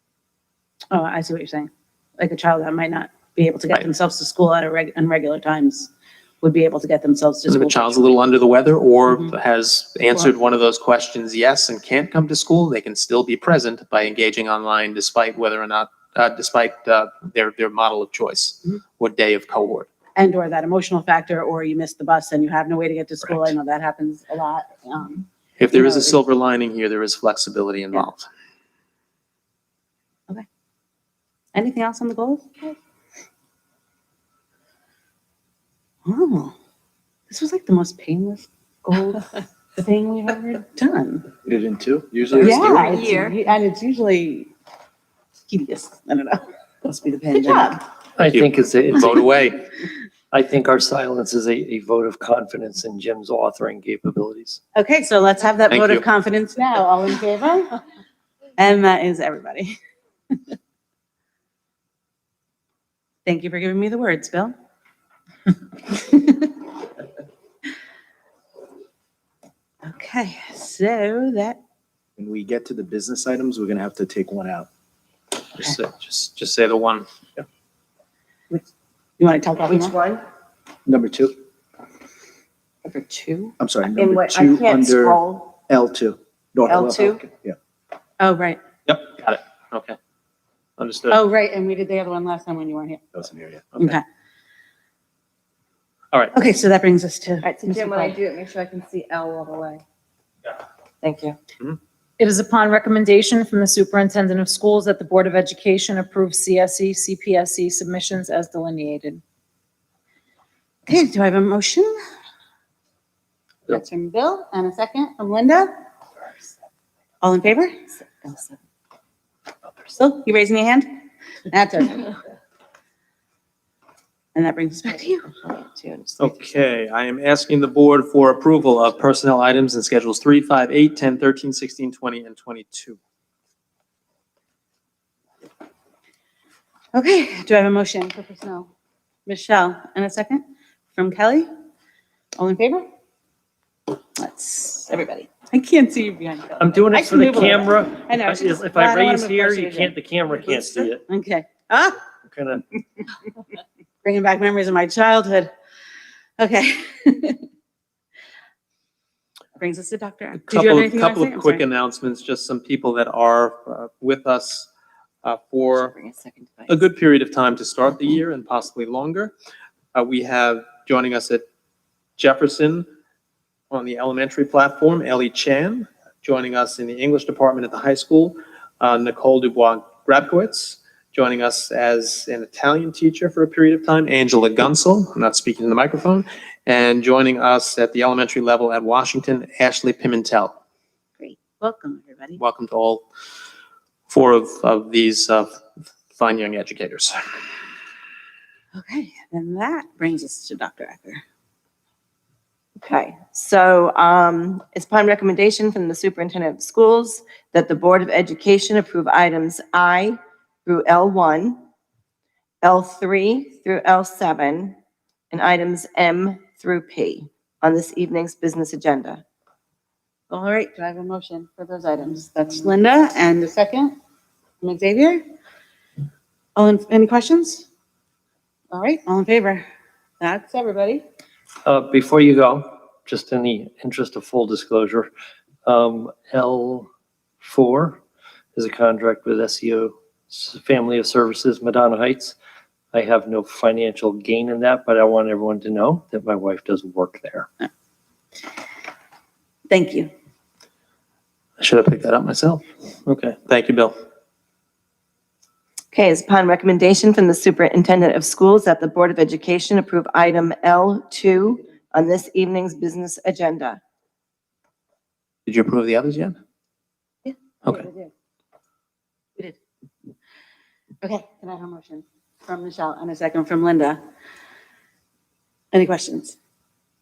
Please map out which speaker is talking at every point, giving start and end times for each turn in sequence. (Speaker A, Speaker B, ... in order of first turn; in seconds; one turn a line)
Speaker A: 0.9-8.2
Speaker B: 7.5-19.9
Speaker A: 9.1-9.4
Speaker A: 20.1-26.2
Speaker B: 23.2-23.5
Speaker B: 25.6-28.3
Speaker A: 31.5-32.8
Speaker A: 36.0-36.5
Speaker A: 37.3-41.3
Speaker C: 41.4-43.0
Speaker A: 42.4-44.5
Speaker D: 43.0-43.3
Speaker A: 45.5-47.8
Speaker E: 48.2-49.4
Speaker B: 48.2-49.6
Speaker E: 50.3-54.6
Speaker A: 54.7-57.8
Speaker B: 55.7-56.0
Speaker A: 58.6-59.7
Speaker A: 63.2-64.5
Speaker A: 65.9-66.5
Speaker A: 69.8-71.6
Speaker C: 72.2-74.7
Speaker B: 75.5-77.0
Speaker A: 79.2-80.0
Speaker D: 79.6-80.2
Speaker C: 80.8-81.3
Speaker D: 82.9-85.5
Speaker C: 83.6-87.5
Speaker D: 86.7-87.2
Speaker A: 88.2-88.6
Speaker B: 88.8-90.0
Speaker B: 90.8-91.2
Speaker A: 91.1-93.1
Speaker C: 93.1-93.7
Speaker A: 93.8-94.0
Speaker A: 96.3-98.1
Speaker D: 97.4-99.8
Speaker D: 101.0-101.4
Speaker F: 102.2-109.2
Speaker A: 110.8-112.0
Speaker A: 113.7-115.7
Speaker A: 117.2-117.7
Speaker D: 118.2-118.5
Speaker A: 119.9-120.9
Speaker A: 121.5-122.1
Speaker A: 124.3-125.3
Speaker D: 125.4-126.4
Speaker B: 126.2-133.0
Speaker A: 136.9-138.7
Speaker A: 139.2-141.5
Speaker A: 142.3-142.9
Speaker A: 144.2-152.0
Speaker E: 146.6-151.1
Speaker E: 152.2-152.6
Speaker A: 154.0-155.5
Speaker A: 156.4-157.4
Speaker A: 159.6-161.7
Speaker B: 160.4-164.7
Speaker B: 165.2-165.9
Speaker D: 165.7-166.7
Speaker B: 166.7-169.3
Speaker B: 169.9-171.4
Speaker B: 172.2-172.8
Speaker B: 173.7-190.6
Speaker A: 191.2-192.4
Speaker B: 192.4-193.0
Speaker B: 194.1-195.5
Speaker B: 196.1-197.2
Speaker A: 198.7-201.2
Speaker D: 202.8-211.6
Speaker D: 212.6-214.8
Speaker D: 215.3-219.2
Speaker A: 220.3-224.0
Speaker A: 224.6-225.2
Speaker A: 226.6-227.7
Speaker A: 228.7-229.6
Speaker A: 230.2-231.0
Speaker E: 231.6-235.1
Speaker E: 235.6-236.9
Speaker E: 237.4-238.0
Speaker E: 238.5-242.3
Speaker E: 242.9-247.5
Speaker A: 249.7-250.1
Speaker B: 251.6-253.9
Speaker D: 255.9-263.8
Speaker B: 265.4-266.4
Speaker A: 267.2-268.1
Speaker A: 271.0-274.0
Speaker A: 275.7-276.4